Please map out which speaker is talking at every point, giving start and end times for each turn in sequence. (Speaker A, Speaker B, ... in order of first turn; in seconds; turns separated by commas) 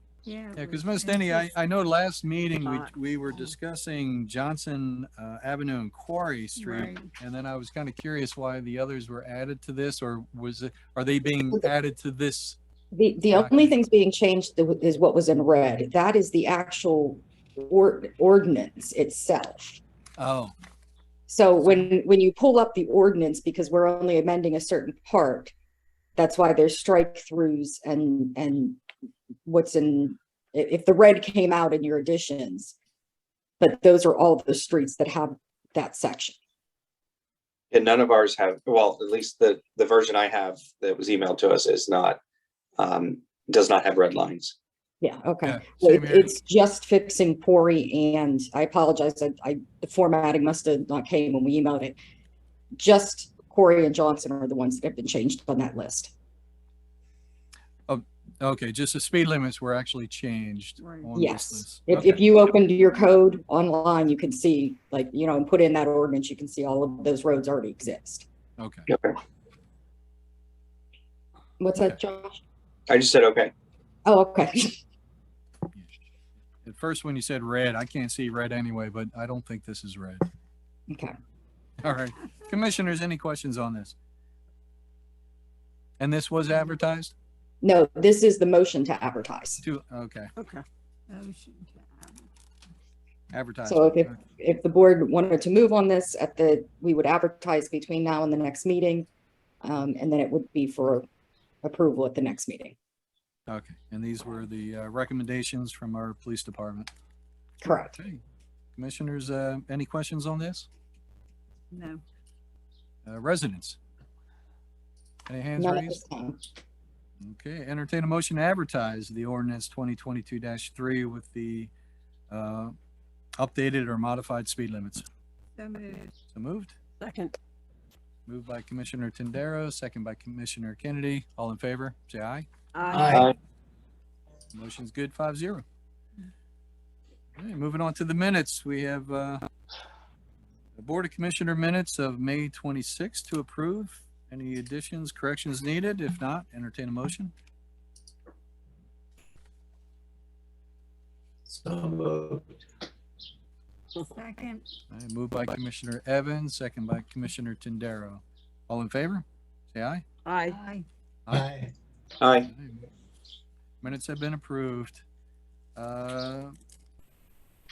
Speaker A: 0.2-1.5, Speaker B: 0.5-12.6, Speaker C: 2.6-2.9, Speaker A: 6.6-7.1, Speaker D: 12.9-19.8, Speaker B: 13.3-13.8, Speaker B: 20.2-20.5, Speaker D: 21.3-25.5, Speaker B: 21.6-21.9, Speaker D: 26.1-28.8, Speaker D: 29.4-32.7, Speaker D: 33.6-36.3, Speaker E: 37.7-42.2, Speaker E: 42.8-44.5, Speaker D: 45.0-52.0, Speaker B: 45.4-46.3, Speaker D: 52.8-56.1, Speaker B: 57.9-62.2, Speaker A: 60.8-61.1, Speaker D: 61.1-68.2, Speaker B: 68.6-68.9, Speaker E: 68.9-69.2, Speaker D: 71.6-72.4, Speaker E: 72.9-73.5, Speaker D: 74.0-74.8, Speaker B: 76.6-80.2, Speaker D: 80.9-81.1, Speaker B: 81.8-83.9, Speaker B: 86.0-87.1, Speaker D: 87.6-89.6, Speaker B: 89.6-90.3, Speaker C: 90.3-90.6, Speaker A: 91.1-92.2, Speaker B: 93.3-94.2, Speaker D: 93.7-99.1, Speaker D: 99.6-101.0, Speaker D: 101.6-102.7, Speaker B: 103.5-106.9, Speaker D: 107.6-108.0, Speaker B: 107.6-108.2, Speaker B: 108.7-110.7, Speaker A: 111.7-112.0, Speaker B: 113.0-113.8, Speaker B: 115.3-116.0, Speaker D: 115.6-116.4, Speaker B: 117.2-121.7, Speaker B: 122.3-122.8, Speaker B: 123.4-125.0, Speaker A: 125.6-126.1, Speaker B: 126.3-126.8, Speaker C: 127.0-127.3, Speaker B: 128.2-132.4, Speaker C: 132.7-133.2, Speaker F: 132.9-133.3, Speaker E: 133.1-133.3, Speaker B: 134.5-135.6, Speaker B: 137.3-139.4, Speaker B: 140.8-147.3, Speaker F: 151.5-152.4, Speaker A: 154.1-154.6, Speaker B: 154.9-160.0, Speaker C: 160.2-160.6, Speaker A: 160.5-160.8, Speaker F: 161.3-161.7, Speaker E: 162.2-162.5, Speaker B: 162.4-162.8, Speaker B: 163.8-165.0, Speaker B: 165.8-166.5